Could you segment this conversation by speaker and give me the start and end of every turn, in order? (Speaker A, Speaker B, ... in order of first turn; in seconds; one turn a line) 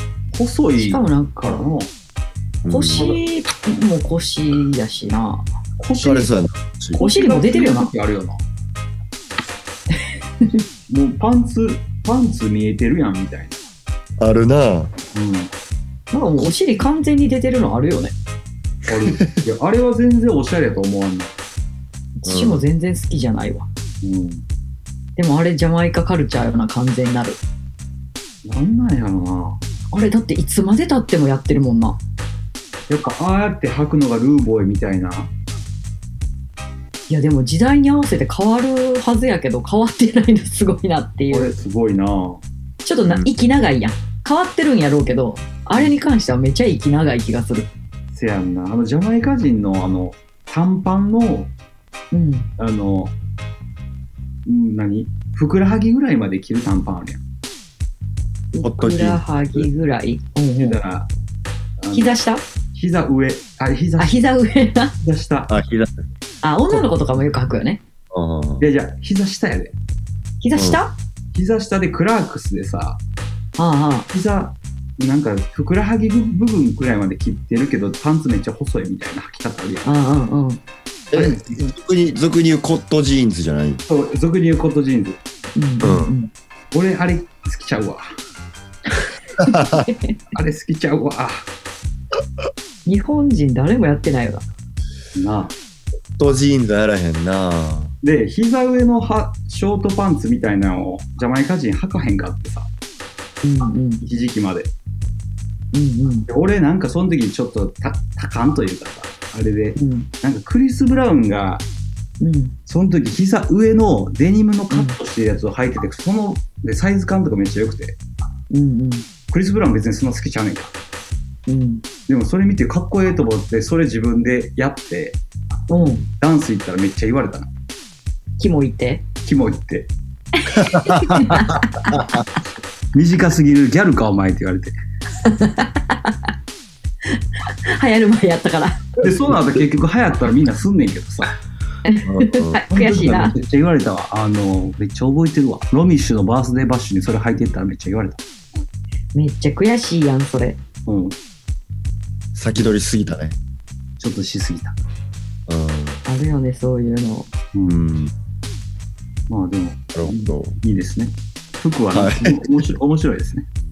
Speaker A: 0.3-1.9
Speaker B: 0.8-1.6
Speaker C: 2.6-3.1
Speaker B: 2.7-5.4
Speaker A: 5.8-6.3
Speaker C: 6.0-7.0
Speaker A: 6.9-8.4
Speaker B: 7.0-7.9
Speaker A: 10.9-13.6
Speaker C: 14.2-14.9
Speaker A: 15.1-15.5
Speaker B: 16.1-18.1
Speaker A: 18.9-21.3
Speaker B: 22.2-23.7
Speaker C: 22.2-22.6
Speaker A: 24.0-24.4
Speaker B: 25.2-27.4
Speaker A: 28.4-29.6
Speaker B: 29.9-32.0
Speaker A: 32.9-35.3
Speaker B: 37.1-41.5
Speaker A: 41.3-42.4
Speaker B: 42.9-47.7
Speaker A: 48.1-51.5
Speaker B: 52.1-52.5
Speaker A: 52.6-53.1
Speaker A: 54.5-57.2
Speaker B: 58.5-60.8
Speaker C: 58.6-59.7
Speaker A: 60.6-61.1
Speaker A: 61.8-62.2
Speaker B: 61.9-62.4
Speaker A: 62.7-64.2
Speaker B: 64.0-64.9
Speaker A: 65.0-65.5
Speaker C: 65.5-66.0
Speaker B: 66.4-67.8
Speaker C: 68.1-68.7
Speaker A: 68.6-69.7
Speaker B: 70.4-71.0
Speaker C: 70.5-70.8
Speaker A: 71.3-73.0
Speaker B: 73.6-74.1
Speaker A: 74.1-79.9
Speaker B: 79.8-80.6
Speaker C: 81.1-83.8
Speaker A: 81.1-81.5
Speaker A: 83.9-85.2
Speaker B: 85.6-86.3
Speaker C: 85.8-86.1
Speaker A: 86.7-88.0
Speaker C: 89.4-89.9
Speaker B: 89.5-90.2
Speaker A: 90.3-91.5
Speaker B: 92.9-94.5
Speaker A: 95.2-95.5
Speaker C: 96.2-97.9
Speaker A: 98.0-102.7
Speaker B: 103.4-104.0
Speaker A: 104.0-104.7
Speaker B: 105.7-106.3
Speaker A: 106.3-111.6
Speaker B: 109.8-110.1
Speaker B: 112.2-112.5
Speaker A: 112.7-118.0
Speaker B: 114.7-115.0
Speaker B: 118.5-119.1
Speaker A: 119.3-120.7
Speaker B: 121.5-121.8
Speaker A: 122.1-125.2
Speaker B: 125.7-126.0
Speaker A: 126.2-127.5
Speaker B: 128.4-129.0
Speaker A: 129.2-129.9
Speaker B: 130.4-132.1
Speaker C: 130.6-132.2
Speaker A: 132.9-134.7
Speaker B: 135.2-136.2
Speaker B: 137.7-139.0
Speaker A: 139.0-141.4
Speaker B: 141.8-143.3
Speaker C: 142.1-142.6
Speaker A: 142.7-148.2
Speaker B: 149.1-150.6
Speaker A: 150.9-151.2
Speaker C: 152.3-153.4
Speaker A: 154.0-154.8
Speaker C: 155.5-156.0
Speaker B: 156.1-157.3
Speaker A: 157.5-157.8
Speaker C: 157.7-158.1
Speaker A: 159.3-163.5
Speaker C: 159.9-160.6
Speaker C: 161.9-162.5